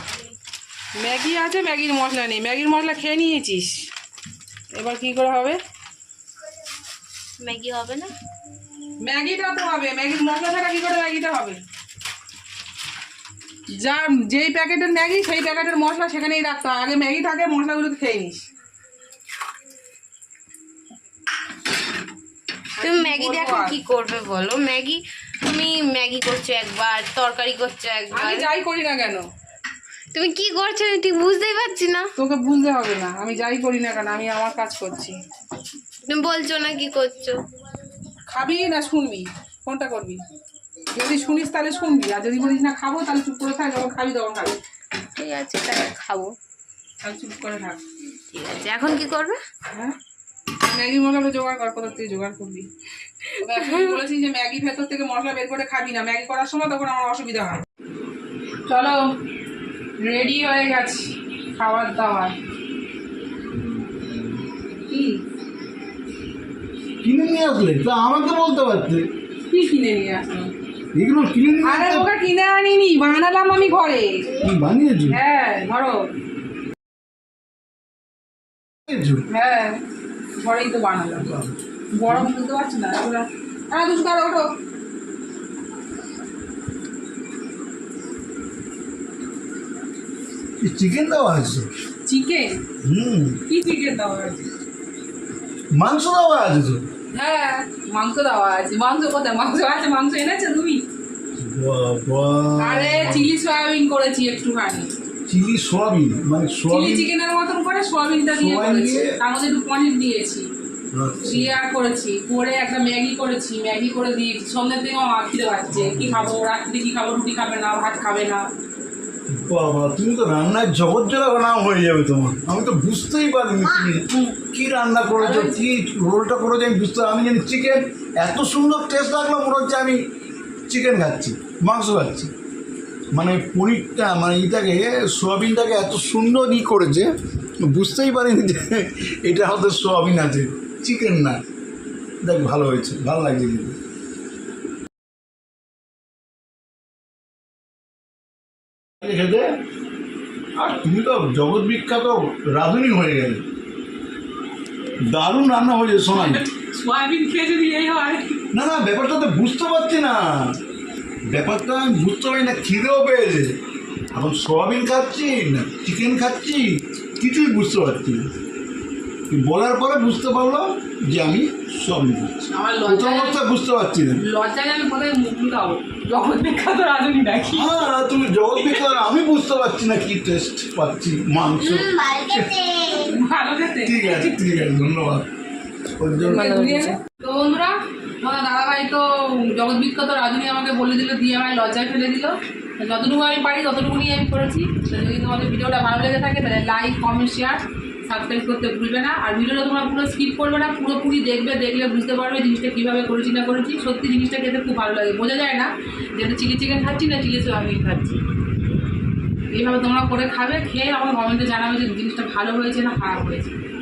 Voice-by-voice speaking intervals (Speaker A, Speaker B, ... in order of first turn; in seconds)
Speaker A: 1.0-3.9, 4.7-5.6, 9.0-11.6, 13.8-18.5, 22.8-23.8, 28.1-29.2, 32.2-35.2, 38.3-40.2, 41.0-44.6, 47.0-47.8, 50.6-52.7, 53.4-57.6, 58.7-59.1, 60.0-62.4, 64.9-65.2, 69.5-70.5, 71.6-74.3, 75.1-76.1, 79.3-79.8, 80.4-81.3, 81.9-84.5, 92.1-92.6, 93.5-94.5, 97.1-100.8, 102.6-104.9, 106.7-110.5, 111.2-118.4, 124.1-124.4, 125.2-125.6, 156.1-158.4, 172.5-173.4, 174.2-177.8, 182.7-184.7, 186.2-208.2, 209.5-213.6
Speaker B: 7.4-8.1, 22.8-28.5, 30.1-32.1, 36.0-37.4, 45.2-46.3, 48.3-49.4, 53.3-54.0, 186.3-187.0
Speaker C: 67.0-69.1, 70.9-72.1, 74.4-75.2, 78.9-79.2, 81.2-81.5, 90.6-91.7, 92.8-93.4, 95.7-96.8, 101.4-103.3, 105.3-107.1, 108.4-109.1, 110.9-111.5, 115.8-116.3, 119.3-130.0, 130.7-132.3, 133.1-137.1, 137.6-141.4, 142.2-143.8, 149.0-149.6, 150.6-153.4, 155.1-156.4, 158.5-160.6, 161.3-163.6, 164.1-168.3, 169.3-174.2, 177.5-182.7, 183.8-185.3, 186.0-186.5